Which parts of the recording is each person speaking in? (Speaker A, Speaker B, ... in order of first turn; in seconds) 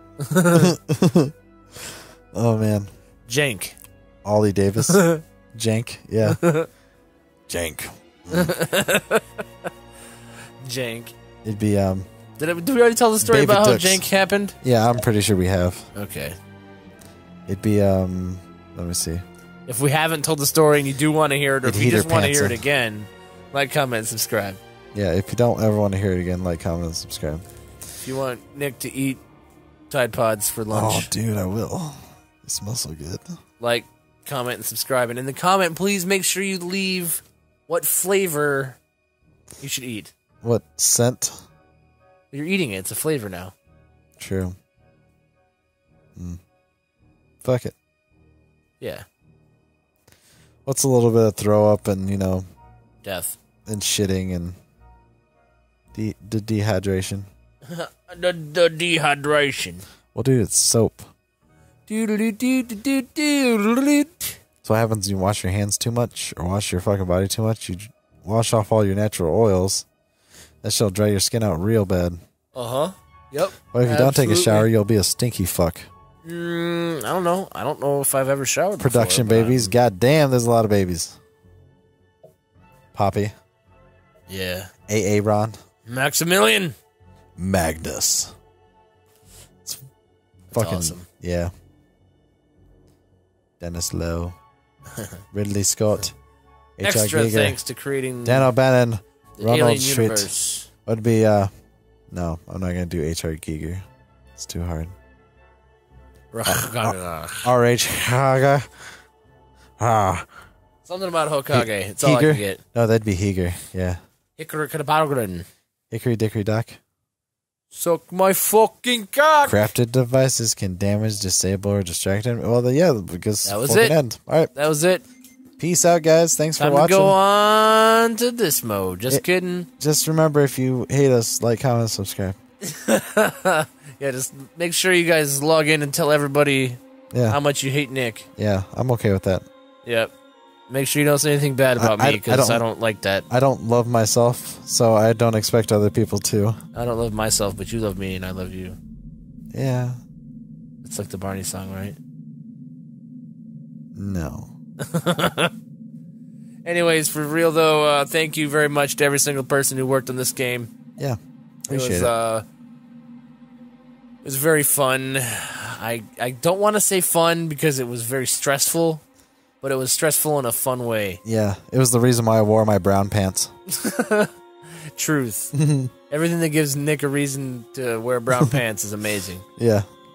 Speaker A: 0.2-0.7, 3.3-3.8, 4.8-5.2, 6.2-6.7, 8.3-9.7, 10.6-11.1, 12.4-14.6, 15.9-16.4, 19.7-24.6, 28.0-29.2, 29.9-31.1, 33.6-38.8, 39.6-40.1, 42.3-43.5, 48.8-49.1, 53.0-53.4, 57.7-59.9, 61.9-64.4, 72.5-74.7, 76.2-79.8, 84.3-84.7, 85.9-86.8, 90.5-91.1, 96.8-98.5, 99.4-100.7, 106.3-107.5, 110.8-112.6, 114.4-115.5, 117.7-119.7, 123.5-124.0, 124.5-125.1, 126.6-129.7, 132.6-138.3, 139.8-140.1, 140.7-143.3, 146.8-148.8, 150.8-152.0, 154.8-155.5, 156.6-160.7, 161.7-162.4, 164.2-169.0, 169.6-171.2, 173.7-174.3, 174.9-175.5, 176.1-179.5
Speaker B: 0.5-2.9, 4.2-6.4, 7.5-8.6, 11.4-12.1, 13.2-14.0, 14.6-15.9, 17.5-19.2, 21.6-22.6, 24.9-27.4, 30.7-33.4, 40.4-41.4, 44.2-44.6, 47.4-47.8, 50.7-52.5, 53.7-54.6, 55.9-57.3, 60.1-61.1, 64.6-69.9, 70.6-72.2, 73.7-75.9, 78.8-81.2, 82.9-83.3, 84.9-85.6, 87.4-88.3, 90.5-91.5, 93.6-94.4, 95.3-96.1, 96.8-97.6, 98.2-100.3, 100.9-101.5, 102.1-103.9, 104.4-105.0, 106.5-108.9, 109.8-110.3, 111.5-114.0, 115.9-116.8, 119.5-124.5, 125.6-127.2, 129.8-132.4, 137.1-137.4, 138.4-139.5, 141.8-142.6, 143.3-146.6, 149.5-150.0, 153.9-154.5, 161.0-162.1, 171.2-173.5, 175.5-175.9, 179.6-179.9